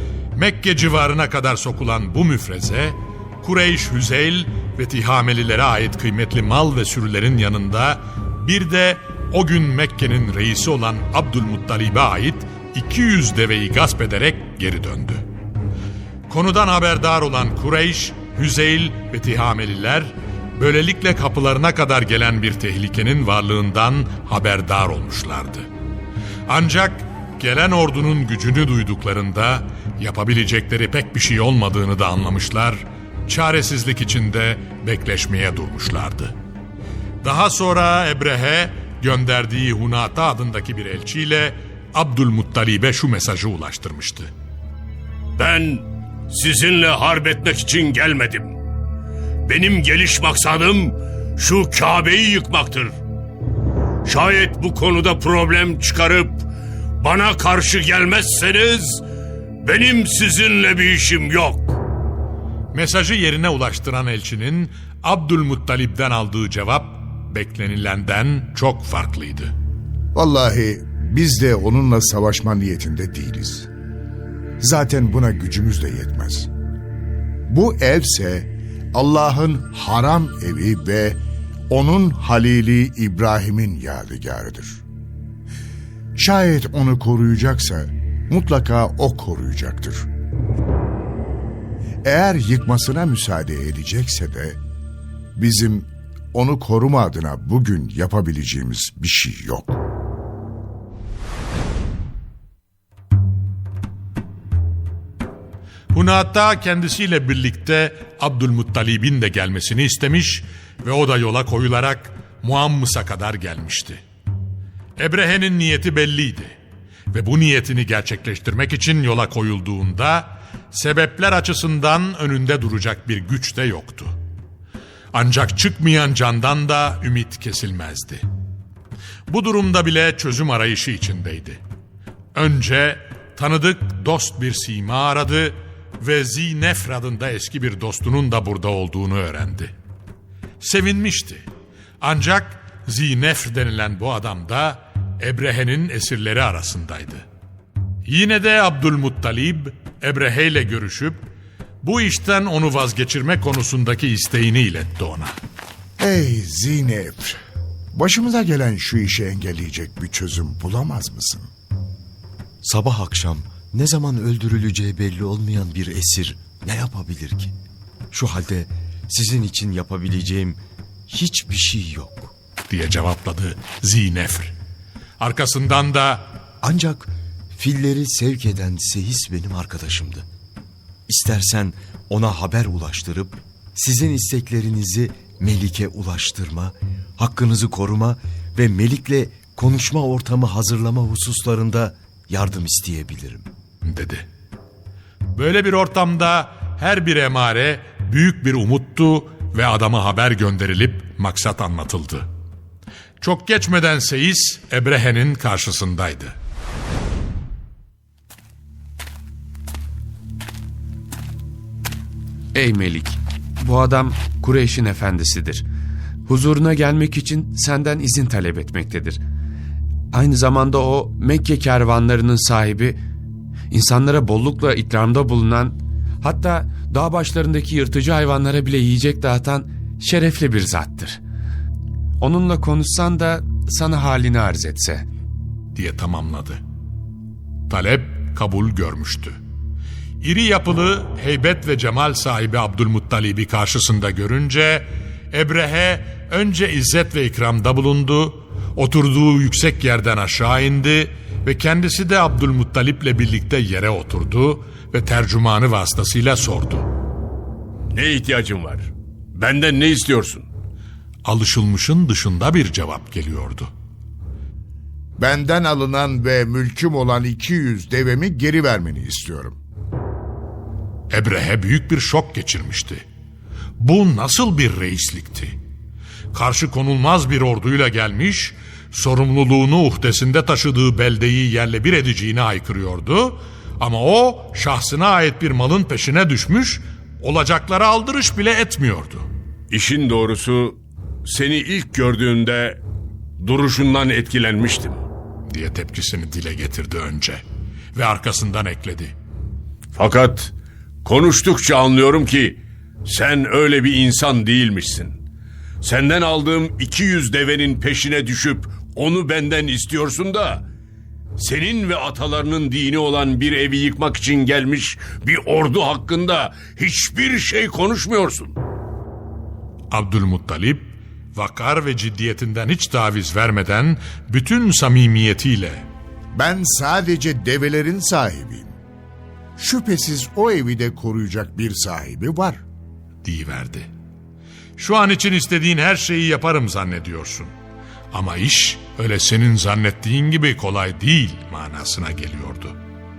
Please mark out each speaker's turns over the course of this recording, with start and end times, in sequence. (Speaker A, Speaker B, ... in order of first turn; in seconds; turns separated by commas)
Speaker A: 0.3-15.2, Speaker A: 16.3-25.7, Speaker A: 26.5-36.3, Speaker A: 37.2-44.3, Speaker B: 45.4-48.5, Speaker B: 49.5-53.0, Speaker B: 54.0-56.4, Speaker B: 57.0-59.0, Speaker B: 59.6-61.8, Speaker A: 62.7-69.5, Speaker C: 70.1-73.7, Speaker C: 74.6-76.5, Speaker C: 77.5-84.8, Speaker C: 86.2-90.1, Speaker C: 92.0-94.6, Speaker C: 95.3-99.8, Speaker A: 105.9-114.0, Speaker A: 115.0-116.6, Speaker A: 117.1-124.2, Speaker A: 125.1-128.2, Speaker A: 129.3-131.6, Speaker A: 132.3-139.7, Speaker A: 140.6-141.5, Speaker A: 142.0-147.3, Speaker A: 148.0-151.2, Speaker A: 151.8-155.3, Speaker C: 156.0-157.4, Speaker C: 157.9-161.5, Speaker D: 162.6-167.5, Speaker D: 168.1-172.3, Speaker A: 172.7-174.5, Speaker A: 175.2-176.3, Speaker D: 176.6-180.3, Speaker D: 181.1-193.5, Speaker A: 193.8-194.3, Speaker A: 195.3-202.3, Speaker A: 203.2-206.3, Speaker E: 212.5-215.7, Speaker E: 216.3-219.2, Speaker E: 220.1-223.0, Speaker E: 223.7-231.2, Speaker E: 232.2-235.1, Speaker A: 235.7-236.6, Speaker A: 237.7-239.4, Speaker A: 240.2-256.9, Speaker B: 257.9-260.5, Speaker A: 261.2-263.7, Speaker C: 265.2-269.6, Speaker A: 271.1-273.0, Speaker A: 273.8-275.6, Speaker A: 276.3-289.3, Speaker B: 289.7-292.8, Speaker B: 293.4-295.0, Speaker A: 295.5-297.4, Speaker A: 297.9-299.1, Speaker B: 299.9-300.5, Speaker B: 301.0-305.2, Speaker B: 305.8-310.6, Speaker B: 311.4-318.6, Speaker A: 319.9-325.9, Speaker C: 326.3-328.7, Speaker C: 329.6-332.6, Speaker A: 333.2-333.9, Speaker A: 334.8-337.5, Speaker A: 338.1-342.8